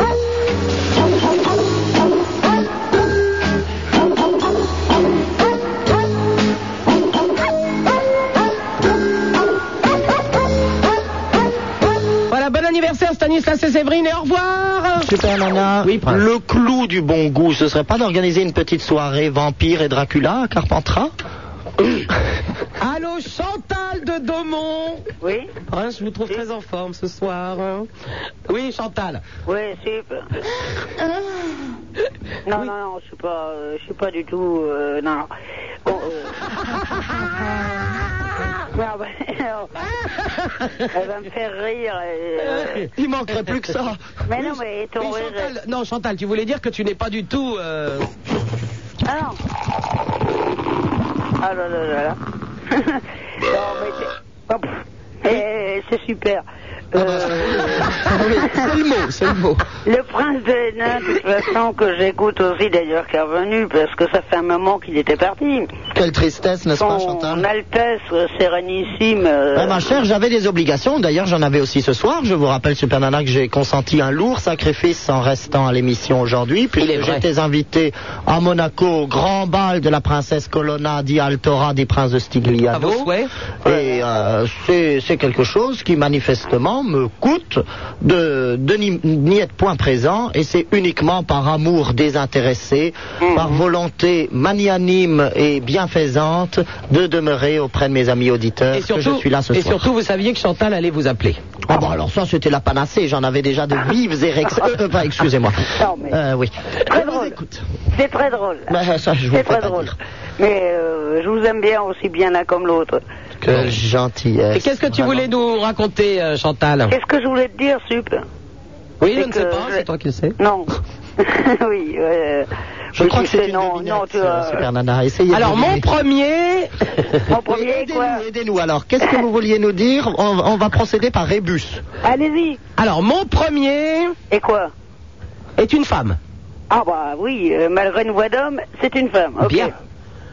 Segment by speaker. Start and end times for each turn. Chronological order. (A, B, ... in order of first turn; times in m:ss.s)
0:12.3-0:15.1 A
0:15.0-0:21.1 B
0:15.8-0:16.2 A
0:22.8-0:25.0 A
0:25.2-0:25.5 C
0:25.7-0:27.9 A
0:28.5-0:29.2 A
0:29.4-0:30.3 C
0:32.4-0:35.3 C
0:35.8-0:36.4 C
0:38.7-0:39.7 C
0:40.6-0:40.8 A
0:40.9-0:42.8 C
0:42.4-0:43.7 A
0:43.3-0:44.0 B
0:44.3-0:45.5 C
0:44.4-0:48.1 A
0:49.0-0:49.4 C
0:51.4-0:52.2 C
0:52.7-0:54.7 C
0:55.2-0:57.7 C
0:57.0-0:59.6 B
0:58.4-0:58.7 C
0:59.8-1:05.7 C
1:05.9-1:07.4 B
1:06.8-1:10.0 C
1:09.5-1:23.1 B
1:16.8-1:17.2 A
1:22.7-1:23.3 A
1:23.6-1:39.9 B
1:38.7-1:41.4 A
1:41.7-1:47.6 B
1:45.8-1:46.2 C
1:46.9-1:47.4 C
1:47.9-1:48.7 C
1:48.7-1:49.9 B
1:49.3-1:53.0 C
1:53.4-1:55.3 B
1:54.5-1:56.9 A
1:56.9-1:58.2 C
1:59.0-2:00.3 A
1:59.1-1:59.8 C
2:00.4-2:04.7 C
2:02.9-2:05.9 B
2:05.3-2:06.7 A
2:07.3-2:08.2 C
2:07.4-2:11.8 B
2:12.0-2:12.6 C
2:12.8-2:14.1 A
2:14.3-2:14.7 C
2:15.6-2:16.2 A
2:16.7-2:19.7 C
2:19.4-2:19.7 A